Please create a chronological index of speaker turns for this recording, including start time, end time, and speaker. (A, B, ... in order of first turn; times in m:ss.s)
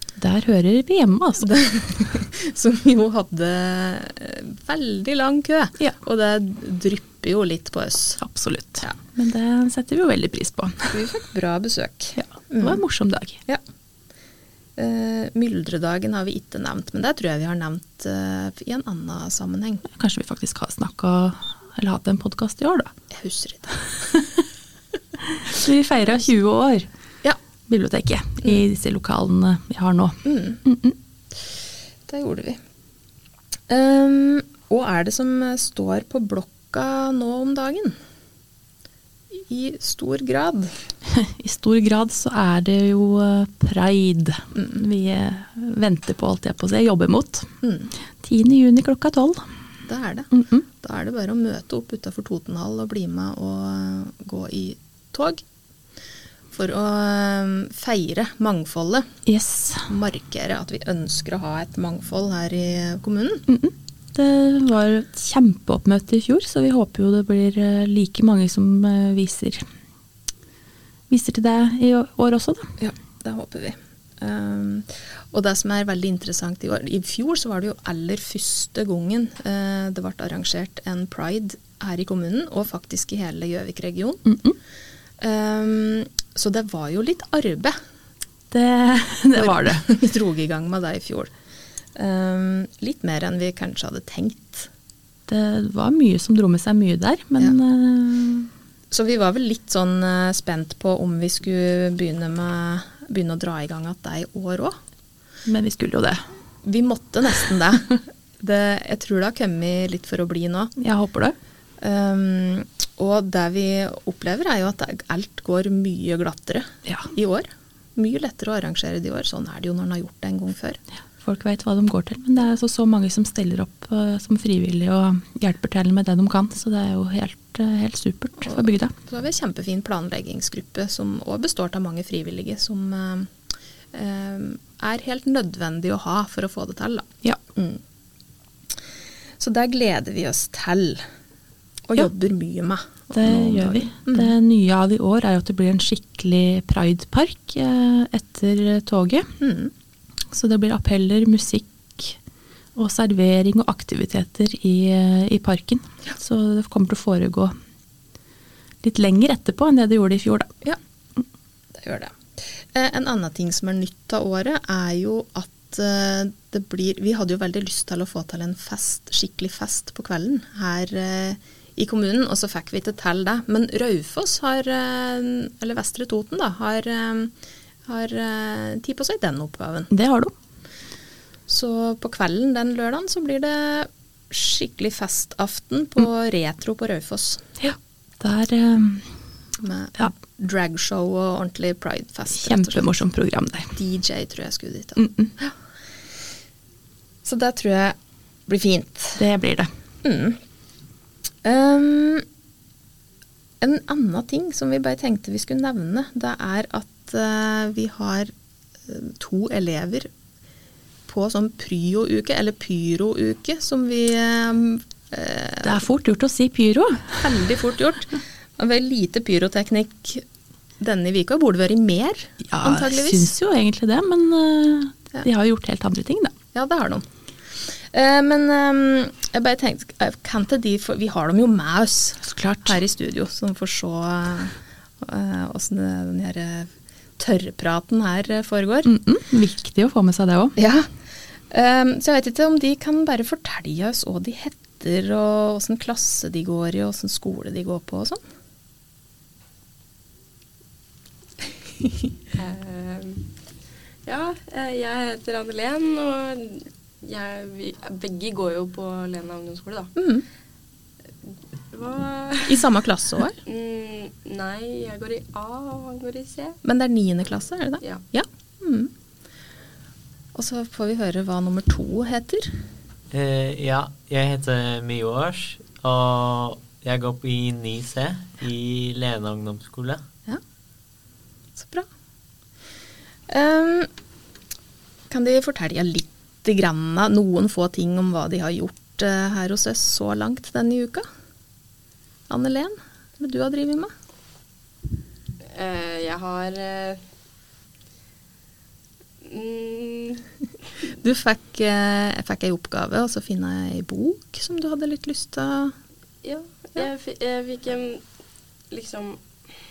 0:00.2-0:01.5 A
0:01.4-0:08.2 B
0:08.2-0:10.9 A
0:10.9-0:12.8 B
0:12.2-0:13.4 A
0:14.8-0:19.8 B
0:19.9-0:22.9 A
0:23.1-0:23.9 B
0:25.2-0:26.9 A
0:27.7-0:31.0 A
0:30.2-0:30.6 B
0:32.1-0:32.6 B
0:33.7-0:38.0 B
0:39.3-0:40.7 B
0:41.1-0:47.5 A
0:47.6-0:47.9 B
0:48.2-0:49.5 A
0:49.9-0:55.4 B
0:50.3-0:50.6 A
0:56.5-0:59.1 B
0:59.3-0:59.9 A
0:59.9-1:03.4 B
1:03.5-1:09.6 A
1:11.1-1:12.7 A
1:12.8-1:24.4 B
1:25.2-1:27.8 B
1:28.5-1:29.8 A
1:29.3-1:31.3 B
1:32.0-1:34.7 B
1:35.3-1:38.5 A
1:38.9-1:44.8 B
1:45.5-1:46.2 A
1:46.6-1:50.7 B
1:50.8-1:51.4 A
1:51.8-2:00.8 B
2:01.2-2:08.9 A
2:08.4-2:13.3 B
2:13.9-2:17.8 B
2:19.4-2:21.0 B
2:21.9-2:24.3 B
2:23.1-2:29.3 A
2:29.4-2:29.7 B
2:30.3-2:32.2 A
2:32.8-2:37.5 A
2:38.8-2:40.5 A
2:41.8-2:42.2 B
2:42.7-2:57.3 B
2:57.9-2:59.9 B
2:59.9-3:00.3 A
3:01.5-3:07.4 B
3:07.6-3:09.1 A
3:09.6-3:13.0 B
3:12.4-3:13.7 A
3:13.7-3:15.5 B
3:15.0-3:15.3 A
3:17.2-3:18.0 B
3:18.5-3:19.2 B
3:19.2-3:19.7 A
3:20.0-3:20.4 B
3:21.4-3:22.2 B
3:23.6-3:28.3 B
3:28.9-3:30.1 B
3:31.1-3:35.8 B
3:35.6-3:37.2 A
3:37.2-3:40.2 B
3:40.8-3:43.3 B
3:42.5-3:46.4 A
3:46.5-3:47.0 B
3:47.9-3:58.9 B
3:52.2-3:52.8 A
3:58.8-4:00.6 A
4:00.6-4:00.9 B
4:01.5-4:08.2 B
4:12.3-4:13.3 C
4:14.0-4:20.0 C
4:20.0-4:20.2 B
4:21.7-4:22.7 C
4:22.5-4:23.4 B
4:23.4-4:26.6 C
4:26.6-4:28.9 B
4:30.3-4:32.5 B
4:33.1-4:40.0 D
4:41.6-4:41.9 B
4:43.3-4:43.9 B
4:45.1-4:51.1 B
4:52.3-4:53.9 B
4:55.5-4:57.0 C
4:59.2-5:00.3 C
5:00.8-5:05.7 B
5:06.2-5:08.0 C
5:08.7-5:09.2 C